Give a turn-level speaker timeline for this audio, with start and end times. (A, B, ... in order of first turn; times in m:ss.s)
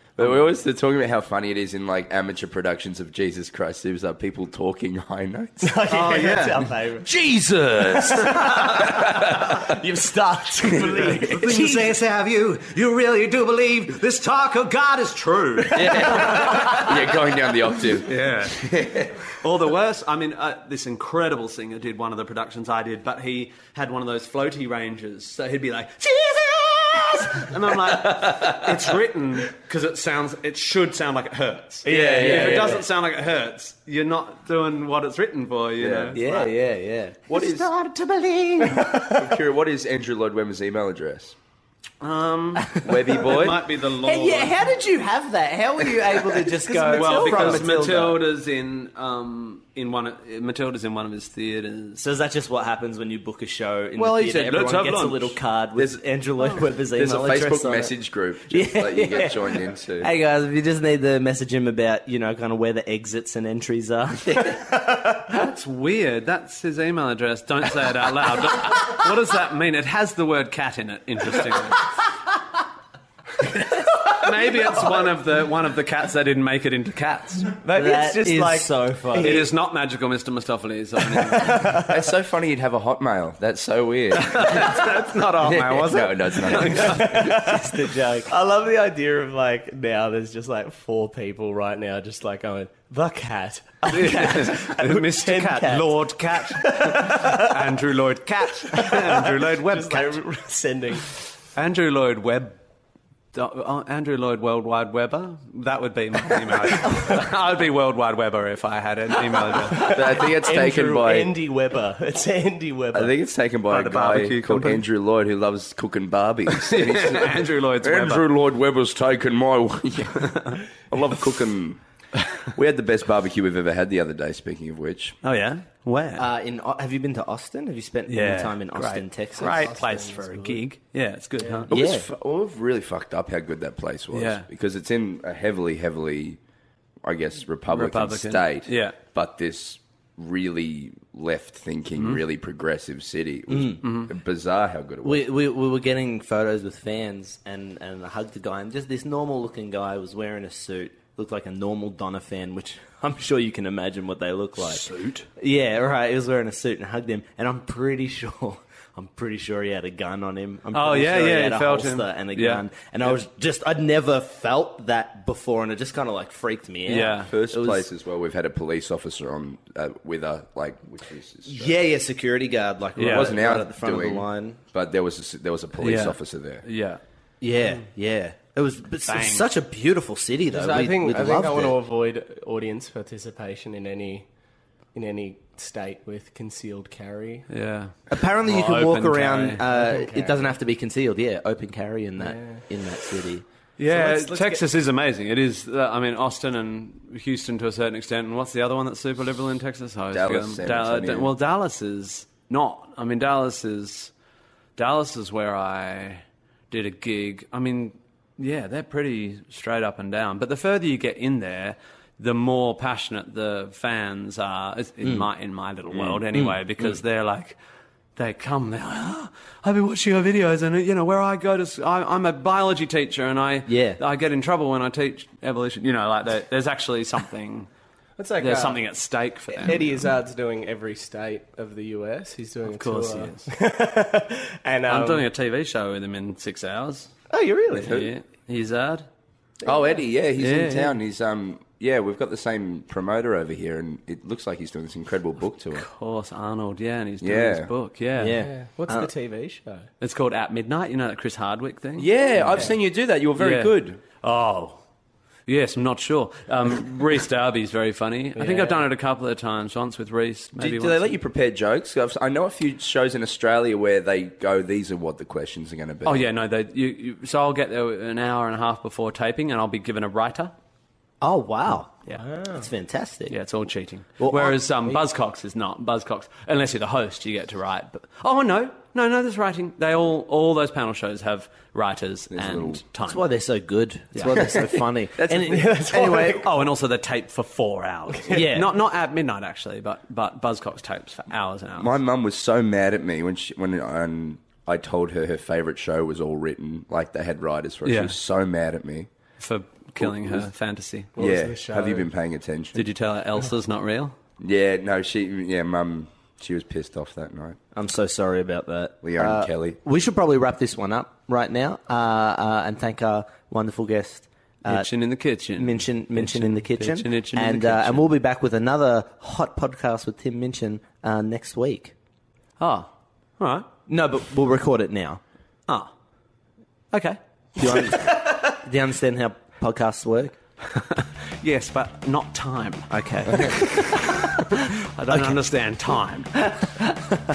0:00.2-0:05.8 A
0:05.6-0:07.1 B
0:05.9-0:06.7 C
0:07.0-0:09.8 A
0:07.7-0:08.9 C
0:08.6-0:11.9 B
0:10.6-0:11.3 A
0:10.8-0:17.0 C
0:15.7-0:19.2 A
0:18.0-0:18.6 C
0:19.3-0:36.5 C
0:27.9-0:28.7 A
0:31.8-0:32.8 D
0:31.8-0:32.7 A
0:32.2-0:32.7 B
0:35.8-0:36.2 A
0:36.1-0:39.1 D
0:37.3-0:37.7 A
0:38.9-0:41.4 A
0:42.0-0:44.6 C
0:42.8-0:43.7 A
0:44.0-0:48.2 D
0:46.6-0:47.7 B
0:46.9-0:52.0 C
0:52.0-0:57.9 D
0:54.0-0:55.4 C
0:55.8-0:56.0 A
0:56.9-1:00.1 A
0:58.5-1:04.6 D
1:05.2-1:11.9 C
1:13.4-1:17.5 C
1:17.6-1:19.5 B
1:17.7-1:19.5 D
1:19.2-1:21.8 C
1:21.2-1:21.9 B
1:21.7-1:27.2 A
1:24.1-1:27.2 C
1:26.7-1:37.5 B
1:27.1-1:28.3 D
1:33.8-1:40.2 C
1:38.7-1:41.1 B
1:41.5-1:42.6 C
1:43.3-1:50.0 C
1:49.7-1:53.1 B
1:49.7-1:51.3 A
1:52.9-2:05.2 A
1:53.7-1:54.8 C
1:56.5-1:58.2 C
2:00.2-2:00.6 C
2:05.2-2:06.2 C
2:06.2-2:09.7 D
2:08.1-2:11.7 C
2:09.4-2:10.6 B
2:11.4-2:11.6 B
2:11.7-2:12.1 D
2:11.7-2:16.4 A
2:14.1-2:14.4 C
2:17.0-2:25.3 A
2:17.7-2:19.0 C
2:23.5-2:23.8 D
2:23.8-2:24.1 C
2:25.0-2:34.8 D
2:34.9-2:35.1 C
2:35.4-2:47.9 D
2:40.7-2:43.2 C
2:46.9-2:47.3 C
2:47.3-2:51.8 A
2:51.4-2:54.6 D
2:53.0-2:53.4 C
2:53.1-2:56.6 A
2:55.8-2:57.0 C
2:57.4-3:01.8 D
2:59.1-2:59.5 C
3:00.5-3:04.2 B
3:04.9-3:07.4 B
3:07.5-3:09.6 C
3:08.1-3:13.4 D
3:09.7-3:10.5 B
3:12.2-3:12.6 B
3:13.8-3:24.1 C
3:13.9-3:14.6 B
3:20.1-3:21.3 A
3:24.8-3:37.6 C
3:35.0-3:35.2 D
3:35.9-3:36.2 A
3:36.3-3:36.8 D
3:38.2-3:47.7 C
3:43.7-3:44.0 D
3:48.2-3:48.8 B
3:48.4-3:50.1 C
3:49.5-3:55.2 B
3:52.6-3:53.5 C
3:54.9-3:57.1 C
3:57.3-3:58.0 B
3:57.7-3:59.1 C
3:57.8-3:58.1 A
3:59.6-4:05.9 A
4:00.4-4:01.0 C
4:05.7-4:08.5 C
4:07.2-4:07.7 A
4:08.2-4:09.1 D
4:08.4-4:09.9 B
4:10.0-4:12.1 C
4:12.0-4:14.0 A
4:13.4-4:14.8 C
4:15.5-4:21.2 C
4:18.4-4:18.8 B
4:20.6-4:26.2 A
4:26.0-4:30.5 C
4:31.2-4:33.4 D
4:32.2-4:32.7 B
4:33.3-4:43.2 C
4:34.2-4:35.0 D
4:42.3-4:42.8 A
4:43.0-4:46.4 D
4:44.3-4:45.5 A
4:45.4-4:46.5 B
4:46.1-4:51.9 C
4:48.3-4:48.7 D
4:51.8-4:59.1 A
4:57.8-4:58.1 C
4:59.4-5:01.1 C
5:00.0-5:00.5 A
5:01.2-5:02.1 B
5:01.2-5:02.9 A
5:02.7-5:04.2 C
5:04.4-5:07.6 A
5:07.7-5:14.9 D
5:09.0-5:09.8 A
5:14.6-5:18.1 C
5:15.5-5:21.9 D
5:22.6-5:23.7 C
5:23.9-5:25.2 D
5:26.9-5:27.8 C
5:27.6-5:30.4 D
5:30.7-5:36.3 C
5:32.9-5:35.4 D